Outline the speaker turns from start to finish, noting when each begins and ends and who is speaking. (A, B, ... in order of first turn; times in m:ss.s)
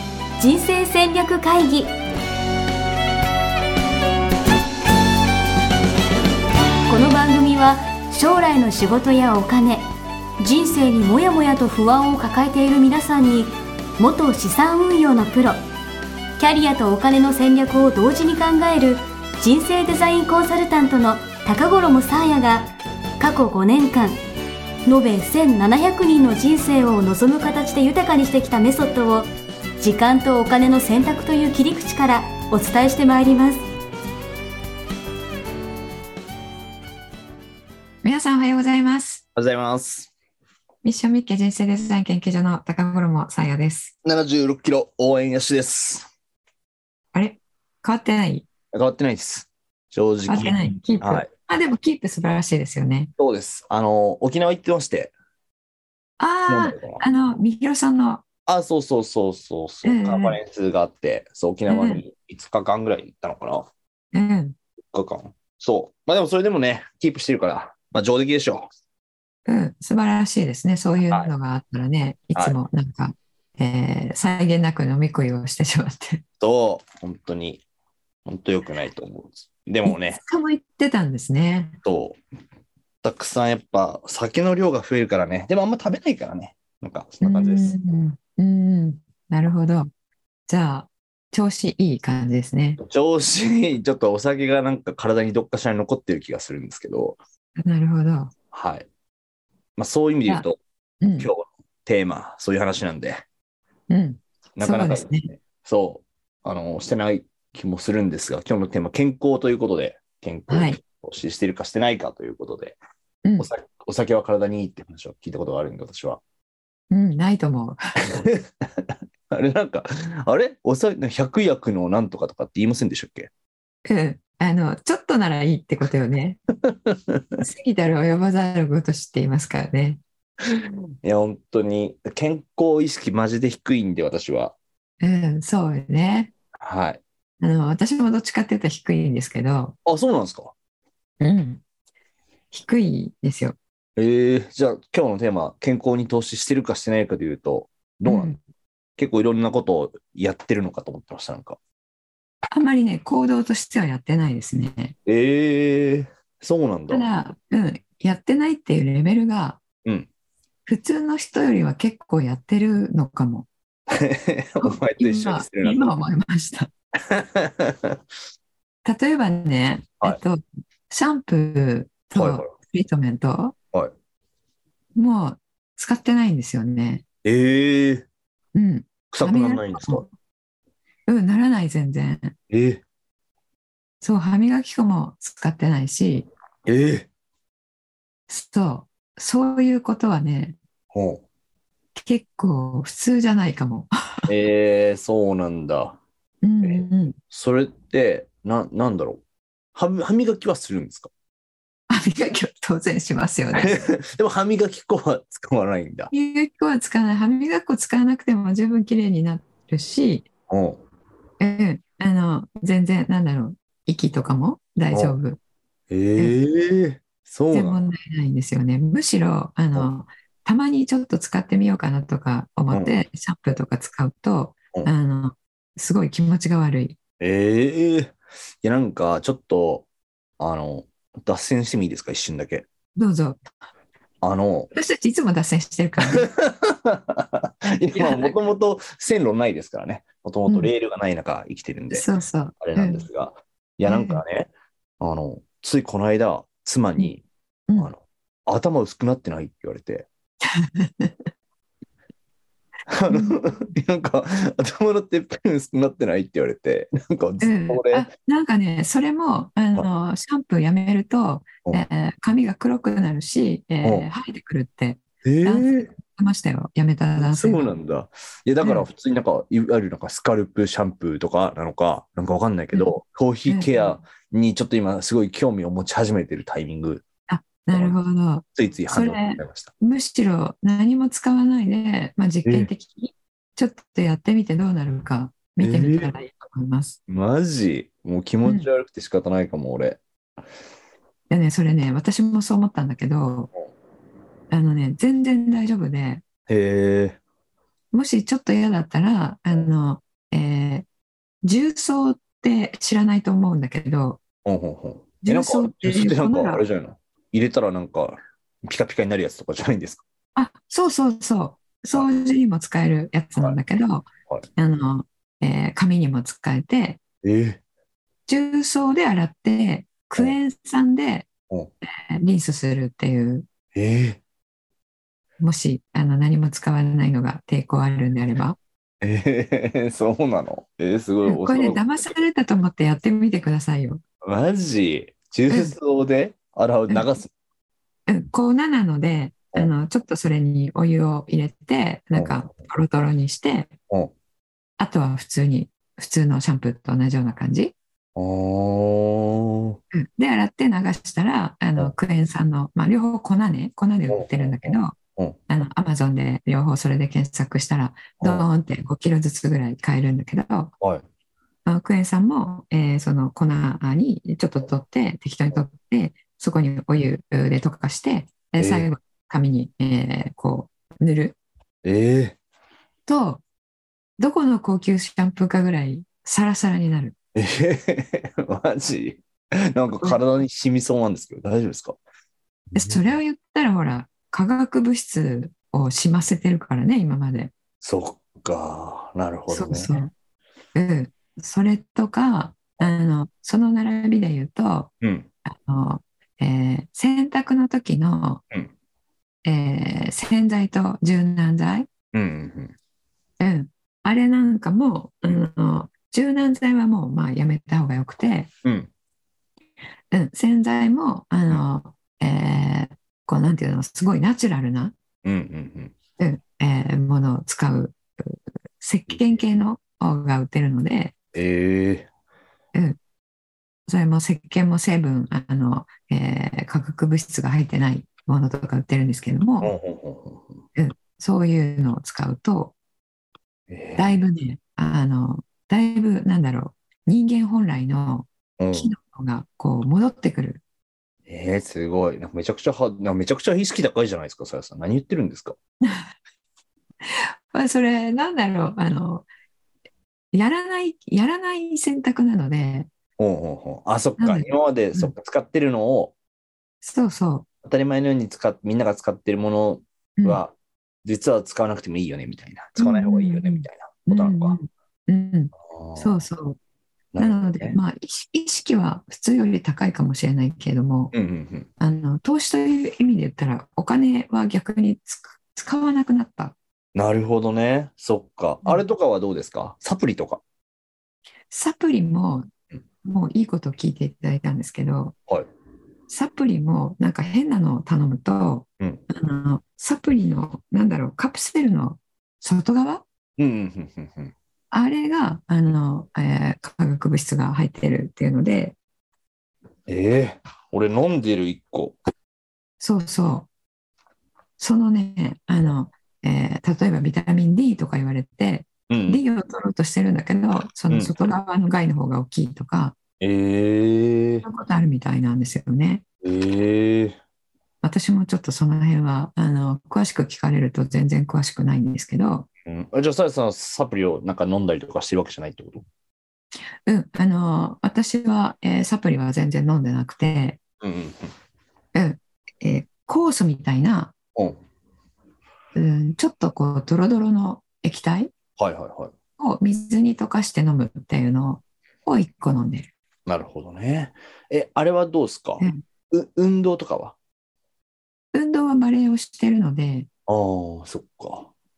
0:00.4-0:01.9 A
0:06.9-0:09.8 A
0:10.4-0:15.6 A
0:16.4-0:24.2 A
0:24.8-0:33.6 A
0:38.0-0:39.2 B
0:39.4-0:40.1 C
0:40.8-0:43.9 B
0:44.0-0:46.1 C
0:47.1-0:48.5 B
0:48.7-0:51.3 C
0:50.3-0:53.1 B
0:53.2-0:55.1 C
0:56.2-0:58.2 B
0:56.5-0:57.0 C
0:58.4-1:03.7 C
0:59.8-1:00.4 B
1:01.7-1:02.0 B
1:04.1-1:04.6 B
1:04.8-1:08.7 C
1:09.4-1:16.2 B
1:16.4-1:17.6 C
1:18.2-1:20.2 C
1:19.8-1:21.8 B
1:21.8-1:22.2 C
1:23.0-1:27.7 C
1:27.2-1:29.9 B
1:30.5-1:32.8 B
1:32.8-1:37.2 C
1:37.6-1:38.3 B
1:38.5-1:38.9 C
1:39.8-1:40.6 C
1:41.0-1:41.3 B
1:41.2-1:43.2 C
1:43.9-1:45.3 B
1:44.6-1:52.8 C
1:50.5-1:50.8 B
1:53.2-1:53.5 B
1:53.4-1:56.2 C
1:56.9-1:57.8 B
1:58.1-2:03.3 C
2:03.8-2:06.4 B
2:06.6-2:07.4 C
2:07.4-2:10.0 B
2:10.4-2:14.6 C
2:15.0-2:16.3 B
2:16.6-2:17.0 C
2:17.4-2:19.8 B
2:19.8-2:20.5 C
2:21.2-2:21.6 B
2:22.5-2:23.6 B
2:24.0-2:28.3 C
2:28.0-2:28.4 B
2:29.0-2:31.6 C
2:32.5-2:35.0 B
2:35.0-2:37.1 C
2:36.9-2:39.6 B
2:40.6-2:43.5 B
2:43.9-2:45.9 C
2:44.6-2:46.7 B
2:47.1-2:48.0 C
2:48.8-2:53.5 B
2:52.1-2:52.5 C
2:55.0-2:57.0 B
2:57.2-2:58.0 C
2:58.5-3:00.1 B
2:59.1-3:00.0 C
3:01.1-3:02.3 B
3:02.5-3:02.8 C
3:04.0-3:06.3 B
3:06.6-3:07.1 C
3:08.3-3:10.6 B
3:10.9-3:11.2 C
3:12.0-3:14.3 B
3:14.3-3:16.0 C
3:16.4-3:17.2 B
3:16.6-3:19.2 C
3:19.7-3:21.1 C
3:21.9-3:23.8 B
3:23.6-3:26.1 C
3:26.1-3:30.2 B
3:30.5-3:30.8 C
3:31.4-3:35.4 B
3:34.9-3:35.2 C
3:35.9-3:37.8 C
3:37.5-3:47.0 B
3:42.7-3:42.9 C
3:47.2-3:49.8 C
3:50.4-3:52.7 C
3:53.0-3:53.4 B
3:54.2-3:54.7 C
3:54.7-3:56.3 B
3:56.1-4:02.1 C
3:57.9-3:58.3 B
4:01.9-4:03.0 B
4:02.6-4:07.2 C
4:03.8-4:04.2 B
4:07.8-4:10.1 C
4:10.5-4:11.1 B
4:12.9-4:18.1 C
4:13.1-4:13.4 B
4:17.4-4:27.6 B
4:25.2-4:25.9 C
4:27.2-4:37.0 C
4:33.5-4:34.0 B
4:37.3-4:47.0 B
4:38.5-4:39.7 C
4:45.6-4:46.1 C
4:47.1-4:50.0 C
4:51.3-4:53.5 B
4:54.5-4:56.2 B
4:56.5-4:57.2 C
4:57.9-5:00.8 B
5:01.4-5:04.2 B
5:04.4-5:10.0 C
5:05.2-5:06.6 B
5:10.4-5:17.0 B
5:17.2-5:17.6 C
5:18.3-5:21.3 B
5:22.1-5:23.4 B
5:23.7-5:24.2 C
5:25.4-5:28.6 B
5:29.0-5:32.2 C
5:31.2-5:34.0 B
5:34.2-5:37.3 C
5:35.5-5:35.7 B
5:38.1-5:43.7 B
5:42.1-5:42.4 C
5:44.8-5:47.7 B
5:48.2-5:49.8 C
5:49.9-5:54.9 B
5:54.1-5:55.4 C
5:55.5-6:00.7 B
5:58.2-5:58.5 C
6:01.6-6:11.4 B
6:08.6-6:08.9 C
6:11.8-6:12.4 C
6:13.1-6:13.4 B
6:14.2-6:17.1 B
6:17.4-6:22.0 C
6:22.7-6:27.5 B
6:22.8-6:23.1 C
6:27.8-6:29.9 C
6:29.5-6:30.1 B
6:30.7-6:34.9 B
6:35.0-6:35.3 C
6:35.4-6:38.4 B
6:39.4-6:41.9 B
6:42.1-6:42.7 C
6:43.4-6:48.5 B
6:48.6-6:48.9 C
6:50.1-6:54.9 B
6:55.2-6:55.9 C
6:56.2-7:01.1 B
6:59.1-6:59.4 C
7:01.3-7:02.1 C
7:03.9-7:09.7 B
7:09.6-7:10.6 C
7:10.8-7:12.7 B
7:13.7-7:14.2 C
7:14.0-7:20.6 B
7:18.6-7:18.9 C
7:21.3-7:25.6 C
7:25.8-7:26.1 B
7:27.0-7:29.3 B
7:30.3-7:32.9 B
7:33.2-7:36.1 C
7:34.2-7:35.1 B
7:36.8-7:37.4 B
7:37.6-7:40.5 C
7:41.0-7:44.6 C
7:42.8-7:46.6 B
7:45.7-7:46.2 C
7:47.1-7:47.8 C
7:47.2-7:51.1 B
7:51.1-7:51.7 C
7:51.8-7:56.5 B
7:56.9-8:00.4 C
8:01.5-8:02.5 B
8:03.0-8:05.2 B
8:06.1-8:13.0 B
8:13.4-8:14.3 C
8:14.7-8:18.8 B
8:19.9-8:22.0 C
8:22.8-8:23.5 B
8:24.6-8:32.9 B
8:28.9-8:29.2 C
8:33.2-8:34.4 C
8:34.4-8:36.0 B
8:36.2-8:37.2 C
8:37.8-8:42.5 B
8:42.6-8:45.8 C
8:46.8-8:50.6 B
8:50.8-8:51.3 C
8:51.9-8:54.1 B
8:54.3-8:54.6 C
8:55.7-8:58.3 B
8:58.6-8:59.1 C
8:59.4-9:02.9 B
9:03.2-9:07.2 C
9:08.3-9:10.1 B
9:10.3-9:11.5 C